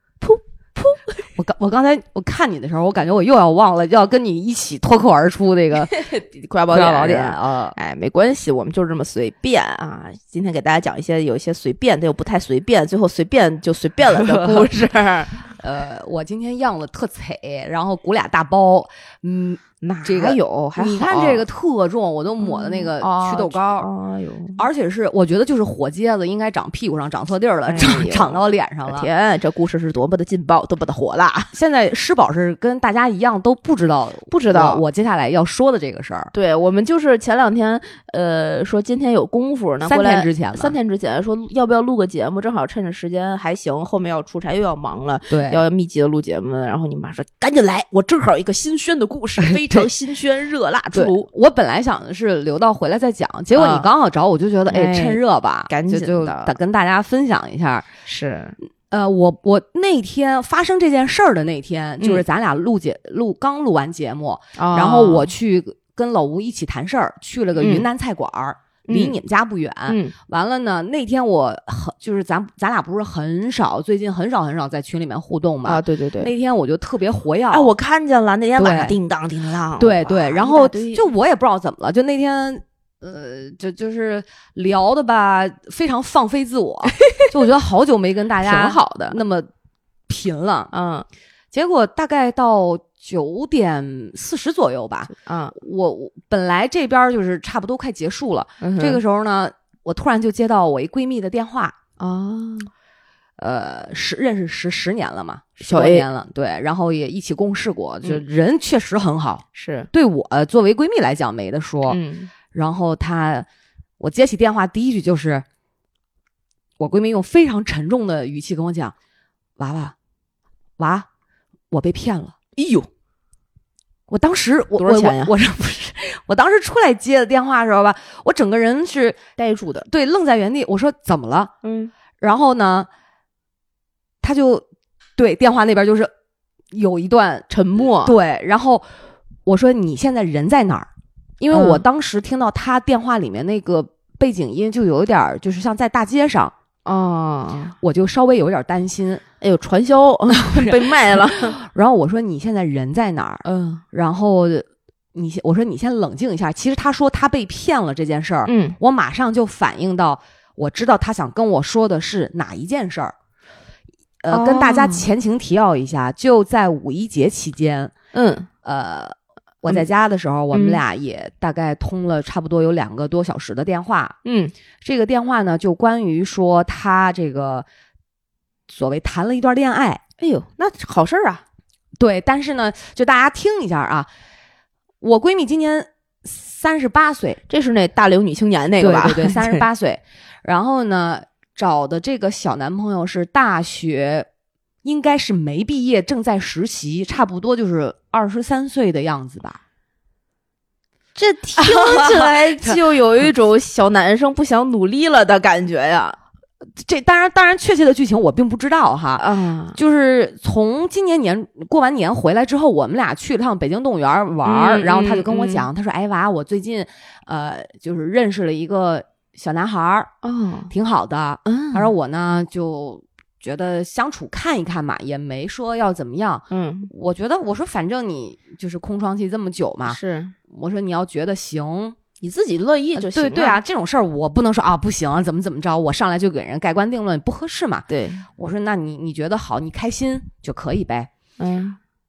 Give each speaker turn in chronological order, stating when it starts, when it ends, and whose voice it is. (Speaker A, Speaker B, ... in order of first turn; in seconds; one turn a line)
Speaker A: 0.2-1.2
Speaker B: 1.4-6.0
Speaker A: 5.8-15.5
Speaker B: 6.7-7.8
Speaker B: 14.1-14.7
Speaker B: 15.5-23.9
Speaker A: 19.8-21.4
Speaker A: 22.4-24.6
Speaker B: 24.6-29.1
Speaker A: 27.6-31.5
Speaker B: 31.5-36.3
Speaker A: 34.3-34.8
Speaker A: 36.3-51.3
Speaker B: 39.8-40.8
Speaker B: 45.3-45.6
Speaker B: 49.4-49.9
Speaker B: 50.9-57.9
Speaker A: 53.5-53.9
Speaker A: 54.7-56.5
Speaker A: 58.0-58.5
Speaker B: 58.9-77.7
Speaker A: 64.6-65.3
Speaker A: 67.6-67.9
Speaker A: 68.9-69.2
Speaker A: 69.9-70.2
Speaker A: 75.7-76.3
Speaker A: 77.5-81.1
Speaker B: 78.6-79.0
Speaker B: 79.8-89.5
Speaker A: 87.0-87.3
Speaker A: 88.4-89.2
Speaker B: 90.1-90.7
Speaker A: 90.7-91.1
Speaker B: 91.5-101.8
Speaker A: 95.2-95.5
Speaker A: 98.6-99.0
Speaker A: 102.0-102.7
Speaker B: 103.4-112.0
Speaker A: 105.6-106.1
Speaker A: 109.5-109.9
Speaker A: 111.9-112.3
Speaker B: 112.5-113.5
Speaker B: 114.0-115.5
Speaker B: 116.8-118.9
Speaker B: 119.6-120.0
Speaker B: 120.8-121.1
Speaker B: 121.7-122.4
Speaker A: 122.6-122.9
Speaker B: 124.1-129.2
Speaker A: 124.8-125.3
Speaker A: 129.4-129.9
Speaker B: 129.9-131.5
Speaker A: 131.6-131.9
Speaker B: 132.2-132.9
Speaker B: 134.2-134.6
Speaker B: 135.2-136.1
Speaker B: 136.7-138.8
Speaker A: 137.5-138.2
Speaker B: 139.5-140.9
Speaker B: 141.4-146.5
Speaker A: 141.5-141.8
Speaker A: 146.8-147.8
Speaker B: 147.8-149.2
Speaker A: 149.4-151.6
Speaker B: 150.3-163.1
Speaker A: 153.4-153.8
Speaker A: 158.5-158.8
Speaker B: 164.2-167.9
Speaker A: 164.3-165.1
Speaker A: 168.1-168.5
Speaker B: 168.6-174.2
Speaker A: 170.5-170.8
Speaker A: 174.2-174.5
Speaker B: 174.8-177.7
Speaker B: 178.7-180.0
Speaker A: 180.2-181.4
Speaker B: 182.0-184.1
Speaker B: 185.0-187.4
Speaker A: 187.5-189.7
Speaker B: 188.8-194.3
Speaker B: 194.8-199.6
Speaker A: 201.2-206.2
Speaker B: 201.6-202.8
Speaker B: 206.8-220.1
Speaker A: 209.2-209.8
Speaker A: 214.4-215.7
Speaker A: 220.2-220.7
Speaker B: 220.7-230.0
Speaker A: 221.5-221.9
Speaker A: 226.5-226.9
Speaker A: 229.9-230.3
Speaker B: 230.5-232.0
Speaker A: 232.2-233.6
Speaker B: 232.9-241.1
Speaker A: 237.9-238.3
Speaker A: 241.4-241.8